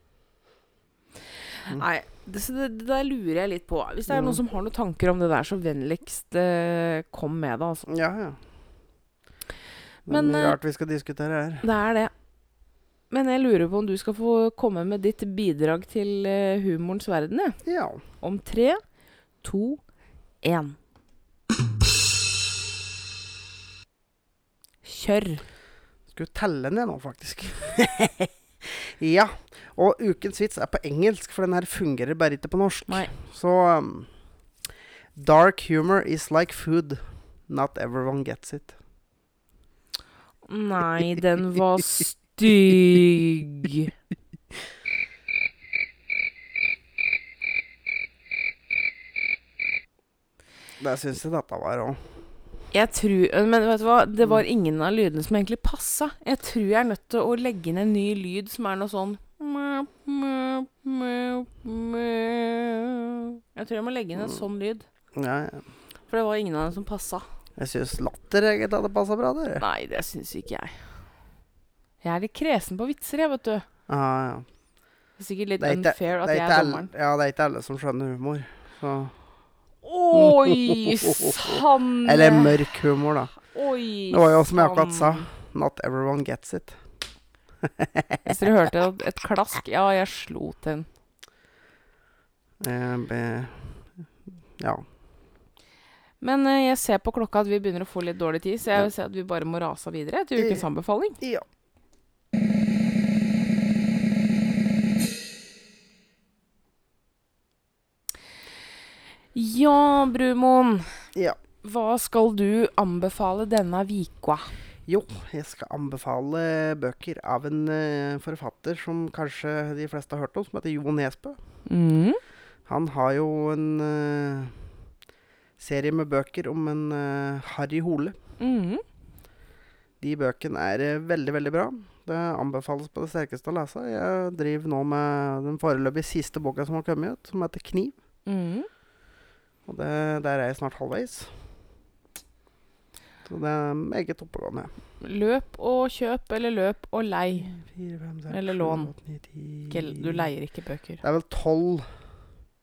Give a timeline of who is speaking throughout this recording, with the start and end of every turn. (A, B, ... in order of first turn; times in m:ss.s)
0:01.6-0:07.9 A
0:04.1-0:04.4 B
0:07.9-0:08.4 B
0:10.1-0:11.6 B
0:10.1-0:10.6 A
0:11.6-0:12.1 A
0:13.1-0:17.6 A
0:17.6-0:18.0 B
0:18.2-0:18.8 A
0:19.4-0:19.8 A
0:20.4-0:20.8 A
0:24.8-0:25.4 A
0:26.1-0:34.1 B
0:35.2-0:38.8 B
0:40.4-0:43.9 A
0:50.8-0:52.0 B
0:52.7-1:04.8 A
1:05.1-1:05.6 B
1:06.1-1:07.2 A
1:07.6-1:09.6 B
1:09.6-1:10.9 A
1:12.0-1:13.6 A
1:13.9-1:14.4 B
1:15.2-1:16.9 A
1:15.6-1:19.1 B
1:19.8-1:22.7 A
1:20.1-1:23.3 B
1:23.4-1:25.3 A
1:24.1-1:26.8 B
1:27.6-1:28.3 B
1:28.2-1:30.9 A
1:32.6-1:33.8 B
1:34.6-1:34.8 B
1:36.2-1:41.2 A
1:40.4-1:40.6 B
1:49.3-1:51.0 A
1:51.6-1:54.5 A
1:54.9-2:01.4 B
2:01.6-2:02.2 A
2:02.7-2:04.6 B
2:05.6-2:08.2 B
2:08.4-2:08.8 A
2:10.0-2:18.0 B
2:18.2-2:18.7 A
2:19.7-2:21.3 B
2:23.2-2:24.7 B
2:25.0-2:27.5 A
2:27.4-2:30.2 B
2:28.3-2:28.9 A
2:29.7-2:31.0 A
2:31.0-2:31.8 B